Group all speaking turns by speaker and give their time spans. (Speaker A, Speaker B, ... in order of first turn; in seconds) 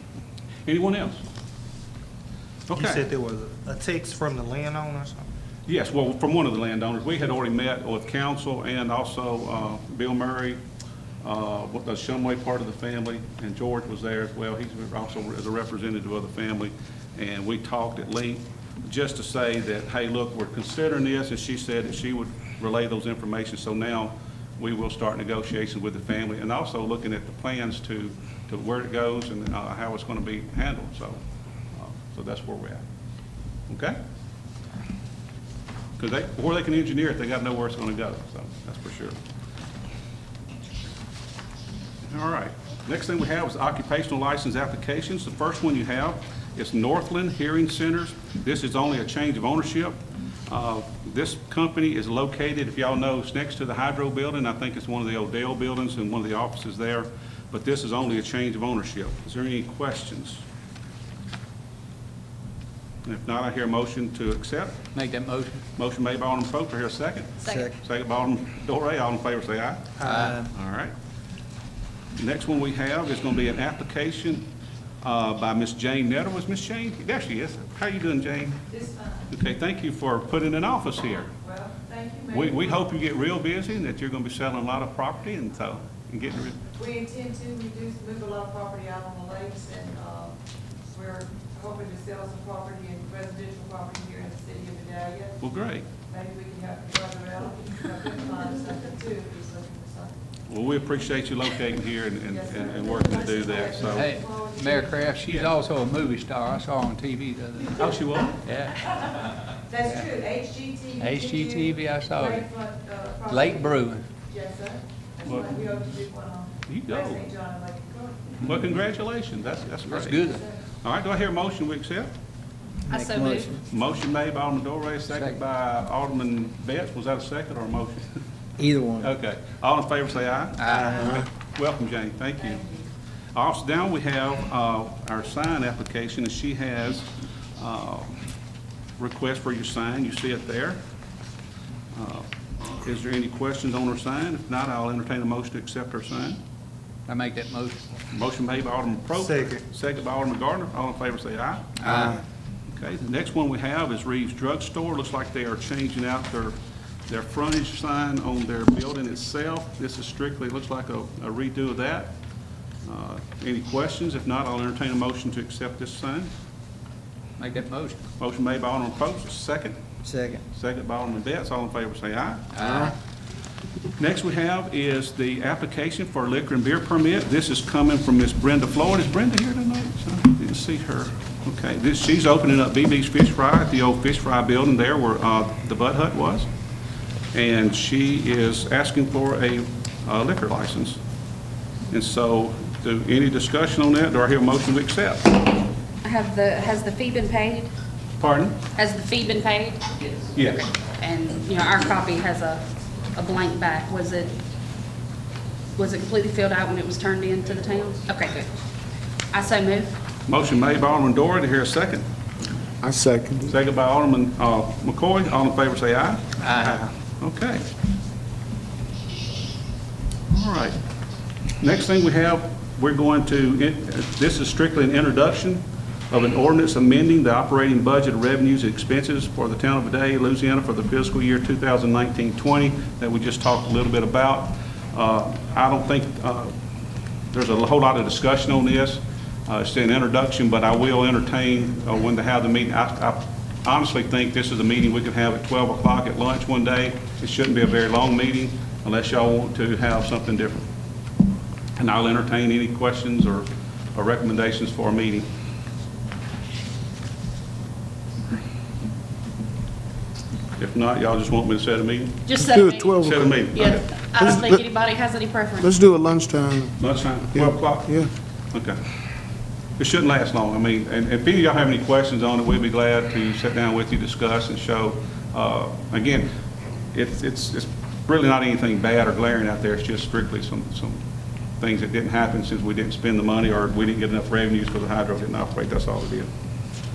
Speaker A: 0.7-1.2, 2.7-3.1, 5.7-10.6, 11.2-31.2, 31.7-32.8, 33.7-34.0, 36.0-39.1, 42.1-60.4, 63.0-64.8, 65.8-70.9, 72.1-74.5, 75.0-78.7, 79.3-81.3, 82.3-86.6, 95.4-95.8, 100.5-104.1, 105.3-105.5, 107.8-108.4, 115.2-115.8, 116.7-117.4, 118.4-122.1, 123.5-128.1, 129.0-132.7, 133.3-138.2, 139.0-140.8, 141.9-146.4, 148.1-152.1, 152.7-156.6, 157.1-162.2, 162.8-166.3, 168.2-169.8, 170.5-172.9, 174.0-186.5, 187.3-191.0, 191.9-195.4, 198.2-198.6, 200.3-200.7, 210.3-212.1, 213.4-217.7, 220.3-220.8, 221.6-236.5, 237.3-250.7, 251.8-255.3, 260.6-262.2, 263.0-263.9, 266.8-268.0, 268.5-268.8, 269.8-276.3, 276.9-281.0, 281.6-286.3
Speaker B: 2.7-5.2, 67.5-67.7, 70.0-70.5, 122.9-123.5, 128.6-129.1, 149.2-149.6, 170.0-170.4
Speaker C: 64.9-65.6, 70.0-70.4, 103.8-107.8, 108.4-108.8, 109.7-110.2, 110.9-112.7, 113.2-114.1, 119.8-120.5, 130.6-131.0, 147.1-147.8, 151.8-152.2, 167.4-168.0, 172.5-172.9, 216.4-216.8
Speaker D: 87.1-90.3, 91.0-94.8, 96.6-99.7, 114.4-114.7, 115.8-116.2, 117.6-118.1
Speaker E: 122.9-123.5, 196.0-197.7, 198.7-204.4, 205.8-208.5, 209.3-209.9, 262.2-263.0, 263.5-265.8
Speaker F: 212.8-213.5, 262.4-264.6, 265.6-266.8, 267.3-268.1